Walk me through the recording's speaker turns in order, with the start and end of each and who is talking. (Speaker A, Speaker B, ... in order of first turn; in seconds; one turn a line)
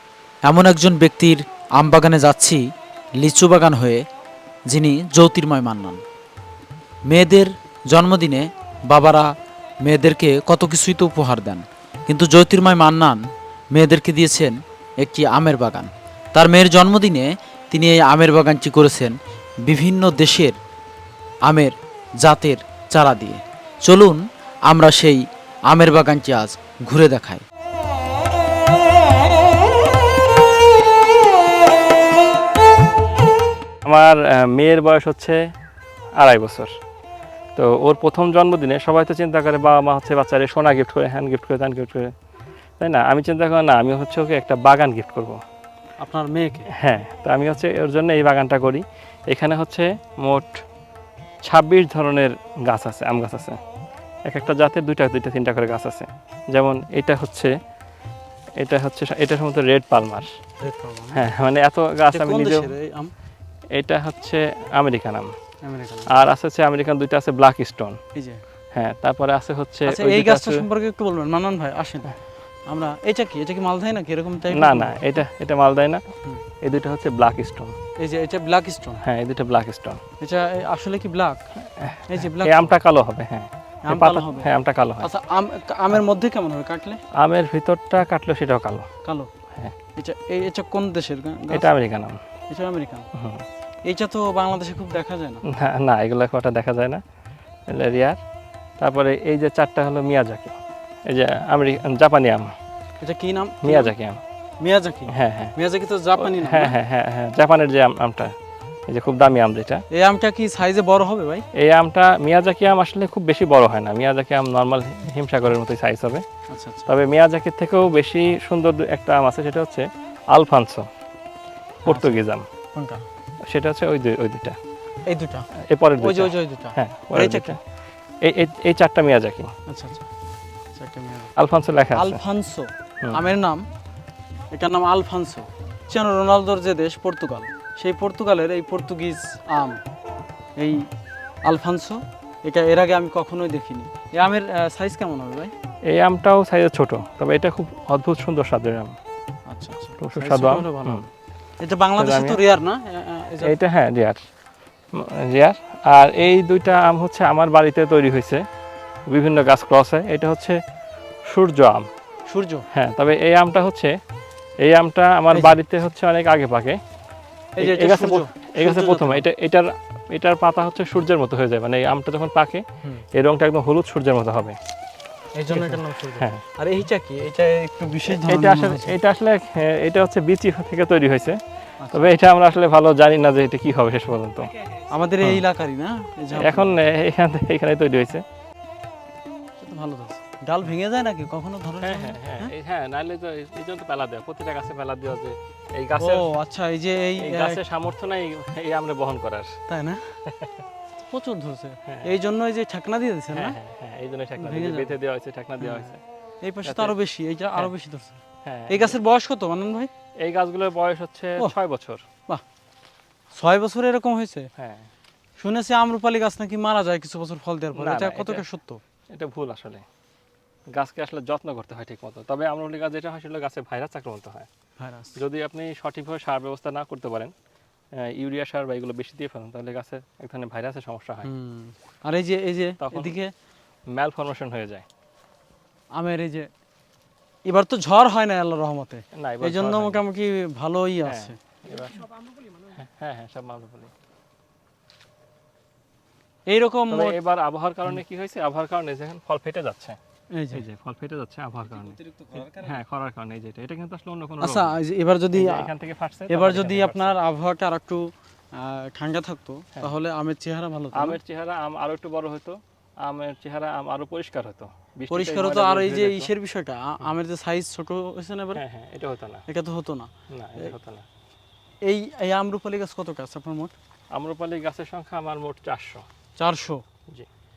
Speaker A: 0.5-2.6
Speaker A: 3.2-4.0
Speaker A: 4.7-6.0
Speaker A: 7.1-9.3
Speaker A: 9.8-13.2
Speaker A: 13.7-20.6
Speaker A: 21.5-27.4
Speaker B: 33.9-35.4
Speaker B: 36.2-36.7
Speaker B: 37.6-42.1
Speaker B: 42.8-45.4
Speaker C: 46.0-46.7
Speaker B: 46.8-50.6
Speaker B: 51.4-53.6
Speaker B: 54.3-57.5
Speaker B: 58.6-60.4
Speaker C: 60.6-61.3
Speaker B: 61.1-62.7
Speaker C: 62.1-63.1
Speaker B: 63.8-65.3
Speaker C: 65.6-66.1
Speaker B: 66.1-68.0
Speaker C: 68.2-68.4
Speaker B: 68.7-70.7
Speaker C: 69.8-75.1
Speaker B: 74.5-76.0
Speaker B: 76.6-77.8
Speaker C: 78.0-79.0
Speaker B: 79.0-80.0
Speaker C: 80.2-81.4
Speaker B: 81.8-85.1
Speaker C: 82.1-82.8
Speaker C: 83.8-87.0
Speaker B: 87.2-88.9
Speaker C: 89.0-89.3
Speaker C: 90.0-91.7
Speaker B: 91.5-92.2
Speaker C: 92.5-93.0
Speaker B: 93.2-93.5
Speaker C: 93.8-95.4
Speaker B: 95.5-97.0
Speaker B: 97.7-98.2
Speaker B: 98.8-102.5
Speaker C: 103.0-103.9
Speaker B: 103.6-104.2
Speaker C: 104.6-106.8
Speaker B: 105.1-105.5
Speaker B: 106.2-108.3
Speaker B: 108.9-109.8
Speaker C: 109.9-111.4
Speaker B: 111.6-116.2
Speaker C: 116.5-116.9
Speaker B: 116.9-120.9
Speaker C: 121.8-122.2
Speaker B: 121.9-122.5
Speaker C: 122.8-123.0
Speaker B: 123.5-124.6
Speaker C: 125.1-125.5
Speaker B: 125.7-127.6
Speaker C: 126.0-127.6
Speaker B: 128.2-129.5
Speaker C: 129.7-130.1
Speaker C: 130.8-131.3
Speaker B: 131.4-132.2
Speaker C: 131.9-133.6
Speaker C: 134.5-139.8
Speaker C: 140.6-140.9
Speaker C: 141.4-145.5
Speaker B: 145.9-149.0
Speaker C: 149.5-151.0
Speaker B: 150.0-151.1
Speaker C: 151.6-153.6
Speaker B: 152.0-152.4
Speaker B: 153.4-154.2
Speaker B: 154.9-158.4
Speaker B: 159.1-160.6
Speaker B: 161.3-161.9
Speaker C: 162.3-162.7
Speaker B: 162.7-163.9
Speaker B: 164.6-166.8
Speaker C: 165.3-165.6
Speaker C: 167.6-169.3
Speaker B: 167.6-172.6
Speaker B: 173.2-174.6
Speaker C: 175.4-179.0
Speaker B: 175.5-176.4
Speaker B: 178.1-181.4
Speaker C: 181.8-182.2
Speaker B: 181.9-184.6
Speaker C: 184.9-186.8
Speaker B: 186.3-188.2
Speaker C: 189.6-192.5
Speaker B: 191.8-196.3
Speaker C: 196.0-197.6
Speaker B: 197.2-199.6
Speaker C: 199.7-200.0
Speaker B: 200.3-200.6
Speaker C: 201.1-203.6
Speaker B: 201.9-202.2
Speaker B: 203.3-206.0
Speaker C: 204.4-204.9
Speaker C: 205.6-209.9
Speaker B: 206.7-207.0
Speaker B: 208.4-209.0
Speaker B: 210.2-212.0
Speaker C: 213.3-214.5
Speaker B: 214.6-214.9
Speaker C: 215.4-218.8
Speaker B: 217.7-218.4
Speaker B: 219.2-219.8
Speaker B: 220.7-224.5
Speaker C: 224.8-225.2
Speaker B: 225.2-227.3
Speaker B: 228.0-231.3
Speaker C: 231.2-233.3
Speaker B: 232.8-233.2
Speaker B: 234.0-234.9
Speaker C: 235.9-236.5
Speaker C: 237.5-241.4
Speaker B: 239.2-240.0
Speaker B: 241.0-243.9
Speaker C: 246.5-247.2
Speaker B: 246.9-250.0
Speaker C: 250.3-250.7
Speaker B: 250.5-254.8
Speaker C: 251.8-252.8
Speaker C: 254.4-255.7
Speaker B: 255.3-257.2
Speaker C: 256.3-261.2
Speaker B: 260.9-266.3
Speaker C: 265.1-268.6
Speaker B: 268.5-269.4
Speaker C: 269.5-270.8
Speaker B: 270.3-271.1
Speaker C: 271.9-273.7
Speaker B: 274.1-276.1
Speaker C: 276.4-276.8